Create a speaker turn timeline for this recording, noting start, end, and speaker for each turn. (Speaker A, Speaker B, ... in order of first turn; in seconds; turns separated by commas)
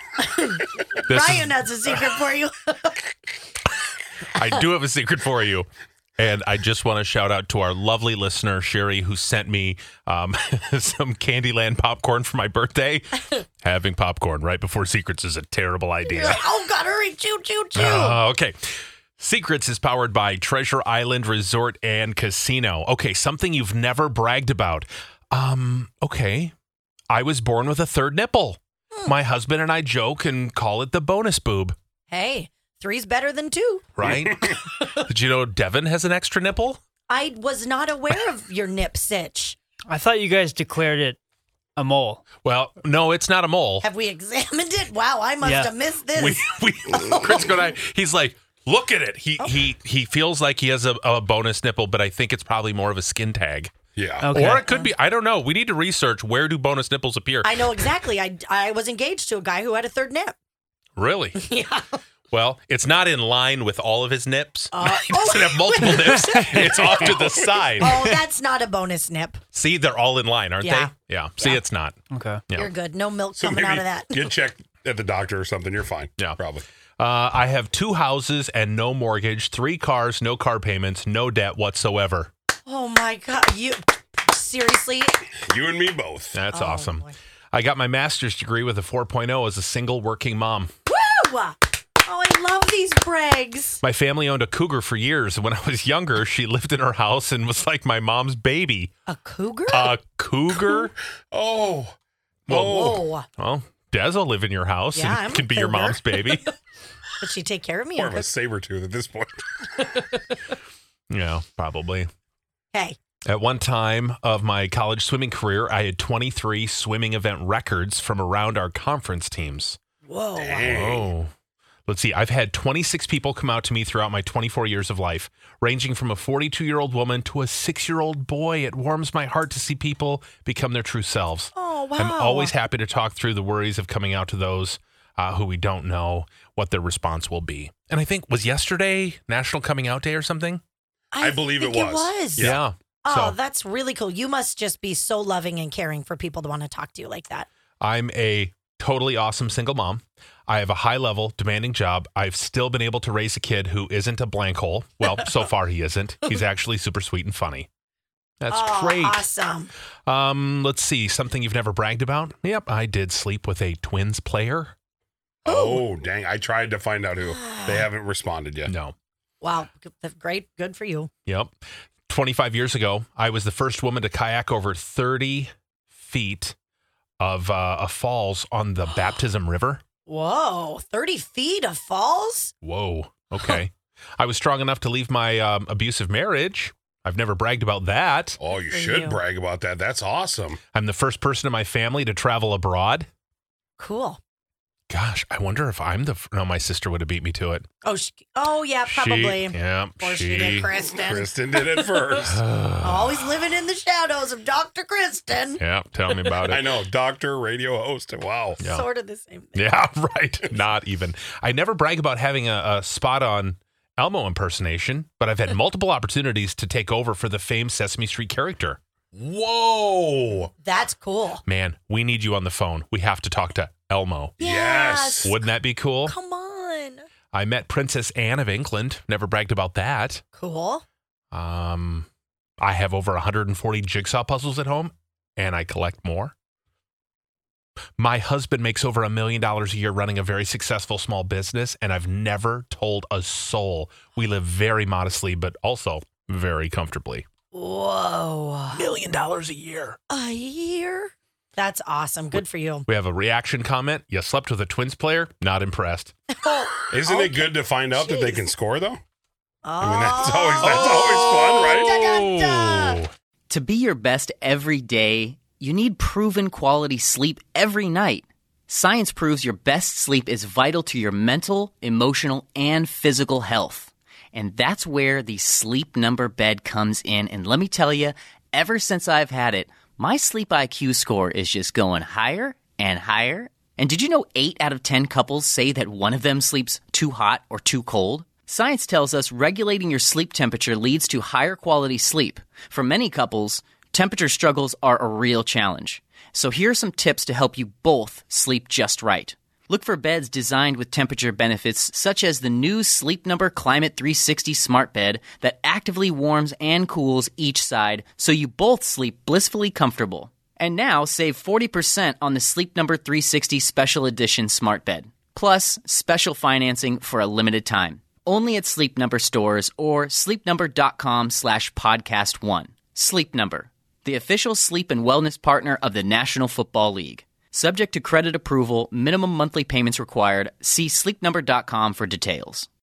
Speaker A: 0.2-3.0, Speaker B: 1.1-1.5, Speaker B: 4.3-16.4, Speaker A: 16.0-18.2, Speaker B: 17.8-18.6, Speaker B: 19.2-26.5, Speaker B: 27.1-31.8, Speaker A: 32.1-33.9, Speaker B: 34.0-36.8, Speaker A: 37.1-39.6, Speaker C: 39.9-41.2, Speaker C: 41.8-42.2, Speaker B: 42.4-43.9, Speaker A: 43.8-46.4, Speaker C: 45.4-45.7, Speaker B: 46.1-57.9, Speaker D: 54.0-54.3, Speaker C: 54.2-54.7, Speaker A: 57.4-60.3, Speaker B: 61.0-61.4, Speaker A: 61.4-61.9, Speaker B: 62.3-68.2, Speaker A: 64.7-66.4, Speaker C: 66.1-66.7, Speaker D: 66.6-67.4, Speaker A: 67.8-69.4, Speaker B: 69.5-72.0, Speaker A: 70.6-71.6, Speaker C: 72.1-72.4, Speaker B: 72.5-72.7, Speaker A: 72.5-74.4, Speaker D: 73.4-76.7, Speaker B: 77.0-82.3, Speaker A: 82.7-85.1, Speaker D: 85.4-86.4, Speaker B: 86.3-90.7, Speaker A: 86.5-87.1, Speaker A: 90.9-93.8, Speaker B: 93.8-98.9, Speaker A: 99.1-99.9, Speaker B: 99.7-100.9, Speaker D: 101.3-101.9, Speaker B: 102.5-106.5, Speaker A: 102.5-103.3, Speaker D: 102.5-103.0, Speaker A: 104.9-106.4, Speaker A: 107.2-108.3, Speaker D: 108.0-109.9, Speaker B: 111.1-112.1, Speaker B: 113.3-119.8, Speaker A: 120.1-120.7, Speaker D: 120.4-121.1, Speaker B: 120.7-121.3, Speaker B: 121.9-140.6, Speaker A: 131.6-132.5, Speaker A: 141.1-142.5, Speaker D: 141.2-142.6, Speaker B: 142.4-143.4, Speaker A: 143.1-147.5, Speaker B: 147.8-157.7, Speaker B: 158.4-159.3, Speaker A: 158.5-159.7, Speaker B: 160.1-164.7, Speaker A: 165.5-165.8, Speaker D: 165.5-168.7, Speaker A: 167.2-167.9, Speaker B: 168.7-168.9, Speaker A: 169.4-171.1, Speaker B: 171.3-171.6, Speaker B: 172.1-176.6, Speaker B: 177.2-179.8, Speaker A: 180.1-182.5, Speaker B: 182.6-188.4, Speaker D: 188.4-190.6, Speaker A: 188.7-189.2, Speaker B: 190.7-193.1, Speaker A: 193.8-194.2, Speaker B: 194.9-197.7, Speaker A: 197.8-202.0, Speaker B: 198.9-200.7, Speaker D: 200.7-202.4, Speaker B: 202.2-203.2, Speaker A: 202.8-205.6, Speaker B: 205.6-206.7, Speaker D: 206.5-208.7, Speaker B: 208.6-208.9, Speaker A: 208.6-209.7, Speaker B: 209.6-218.8, Speaker D: 219.1-220.5, Speaker A: 220.6-221.4, Speaker B: 221.4-224.4, Speaker A: 224.4-225.4, Speaker D: 224.4-225.3, Speaker B: 225.2-226.2, Speaker A: 226.1-227.1, Speaker B: 227.3-230.2, Speaker A: 230.4-230.8, Speaker B: 231.3-232.1, Speaker B: 232.6-236.3, Speaker B: 238.0-247.2, Speaker A: 247.5-248.8, Speaker B: 248.7-250.0, Speaker A: 250.1-252.9, Speaker B: 252.3-256.1, Speaker A: 256.4-258.4, Speaker D: 256.9-259.0, Speaker A: 259.6-263.0, Speaker D: 259.8-261.9, Speaker B: 260.6-263.1, Speaker E: 263.5-332.7